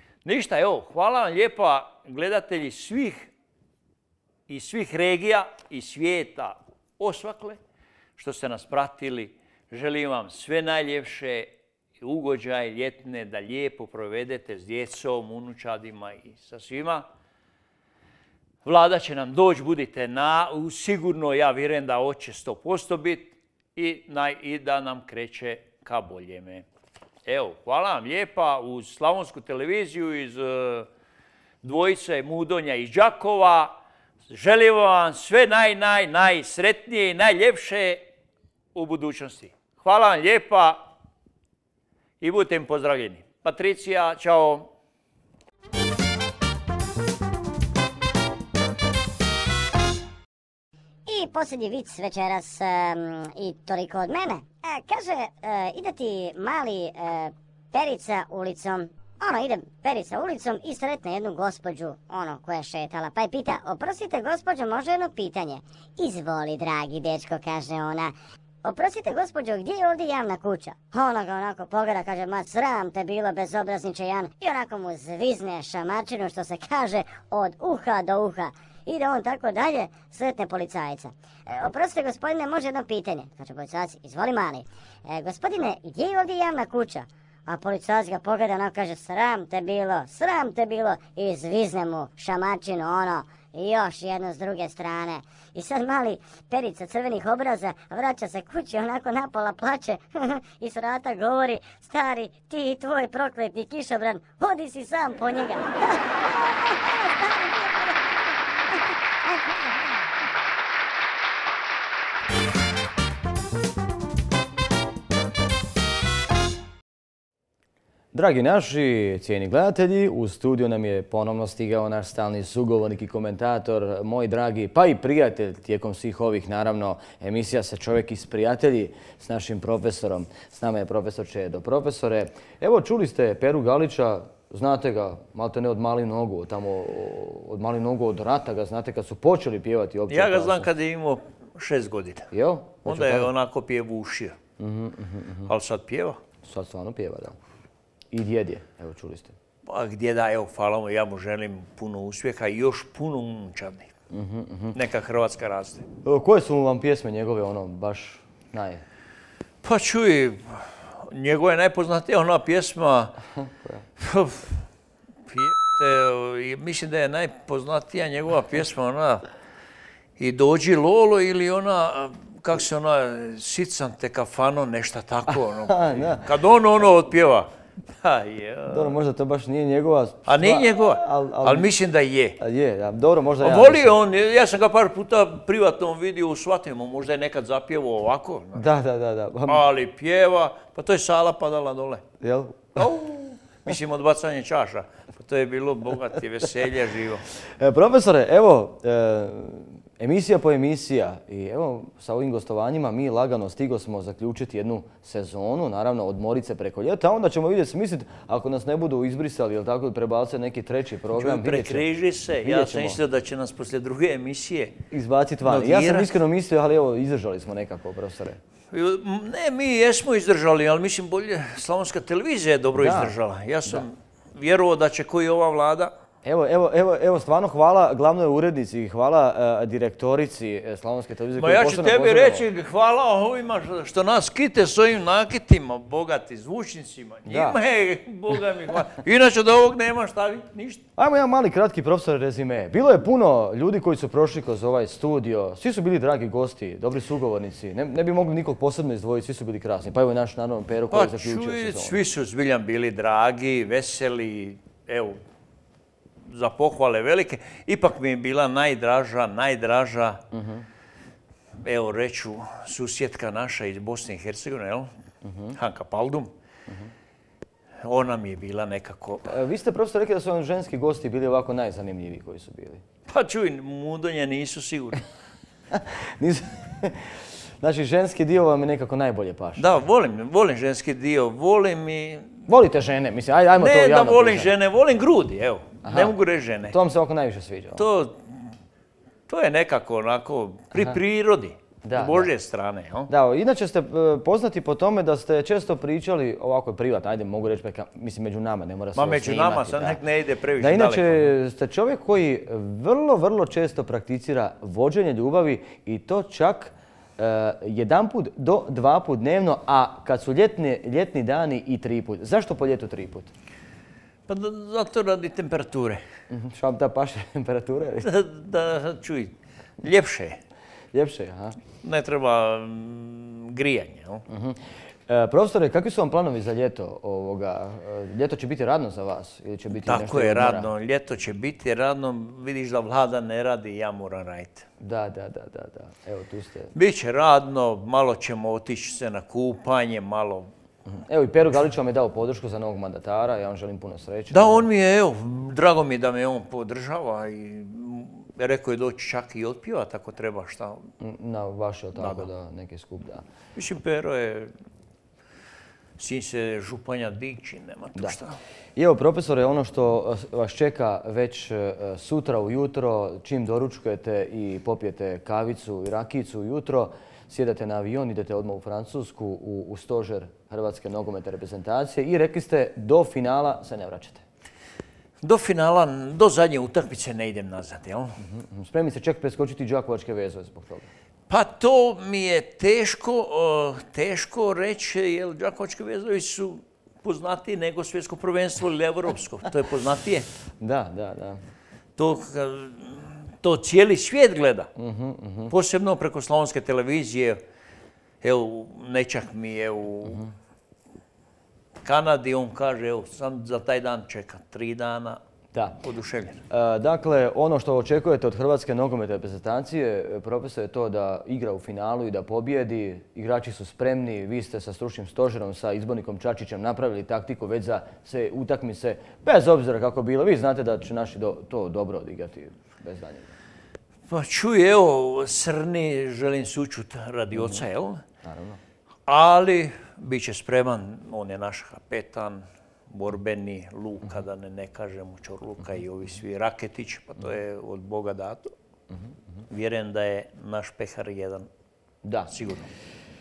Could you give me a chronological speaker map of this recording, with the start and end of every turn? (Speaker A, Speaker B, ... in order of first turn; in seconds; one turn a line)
Speaker A: 0.2-3.3
Speaker A: 4.5-7.6
Speaker A: 8.2-17.1
Speaker A: 18.6-26.6
Speaker A: 27.2-30.9
Speaker A: 31.6-38.0
Speaker A: 38.7-40.9
Speaker A: 42.2-44.7
Speaker B: 51.1-108.1
Speaker B: 108.7-109.8
Speaker C: 118.1-140.7
Speaker A: 140.1-142.3
Speaker C: 142.3-143.3
Speaker A: 142.8-144.4
Speaker C: 144.6-145.5
Speaker A: 145.4-146.2
Speaker C: 146.4-147.4
Speaker C: 148.1-149.3
Speaker A: 149.7-153.9
Speaker C: 154.1-154.8
Speaker A: 154.7-155.8
Speaker C: 156.0-158.8
Speaker A: 159.6-163.2
Speaker C: 163.4-163.8
Speaker A: 164.0-164.6
Speaker A: 165.3-169.2
Speaker A: 170.2-179.0
Speaker C: 175.3-176.2
Speaker C: 178.7-181.7
Speaker A: 180.3-182.4
Speaker C: 182.4-183.9
Speaker A: 183.4-188.7
Speaker C: 188.6-189.6
Speaker A: 189.5-192.0
Speaker C: 192.2-193.0
Speaker A: 192.8-197.2
Speaker C: 197.6-211.8
Speaker A: 211.2-214.7
Speaker C: 212.4-213.0
Speaker C: 214.9-218.4
Speaker A: 215.4-216.1
Speaker A: 218.7-225.9
Speaker C: 222.8-223.1
Speaker C: 226.2-232.4
Speaker A: 231.4-240.8
Speaker C: 237.3-237.6
Speaker C: 241.0-252.0
Speaker A: 250.9-255.2
Speaker A: 256.3-260.2
Speaker C: 260.3-260.6
Speaker A: 261.6-264.9
Speaker C: 265.2-265.6
Speaker A: 265.5-266.3
Speaker A: 267.8-269.3
Speaker C: 269.3-272.8
Speaker A: 273.1-275.0
Speaker C: 275.7-279.6
Speaker A: 279.6-282.4
Speaker C: 282.5-284.5
Speaker A: 283.6-286.8
Speaker C: 285.8-286.1
Speaker C: 286.7-287.8
Speaker A: 287.8-288.5
Speaker A: 289.3-293.1
Speaker C: 291.8-292.3
Speaker C: 293.1-300.0
Speaker A: 298.9-301.3
Speaker C: 300.6-313.3
Speaker A: 314.3-316.0
Speaker C: 316.3-318.1
Speaker A: 318.0-320.4
Speaker C: 320.9-321.6
Speaker A: 321.8-324.2
Speaker C: 324.3-330.7
Speaker A: 329.8-334.7
Speaker C: 334.8-336.7
Speaker A: 336.7-340.5
Speaker C: 340.9-344.7
Speaker A: 344.3-350.8
Speaker C: 351.0-353.2
Speaker A: 351.9-352.3
Speaker A: 353.6-354.5
Speaker A: 356.0-358.4
Speaker C: 358.8-374.2
Speaker A: 375.2-378.2
Speaker C: 378.2-380.9
Speaker A: 381.3-390.3
Speaker C: 390.6-391.4
Speaker A: 392.0-394.7
Speaker C: 394.8-395.5
Speaker A: 395.5-397.4
Speaker A: 398.2-400.2
Speaker A: 401.8-405.2
Speaker A: 405.8-406.4
Speaker C: 406.5-423.3
Speaker A: 424.1-428.0
Speaker C: 427.3-427.6
Speaker C: 428.2-428.6
Speaker A: 429.1-438.5
Speaker A: 439.5-441.5
Speaker C: 442.0-442.3
Speaker A: 442.3-442.7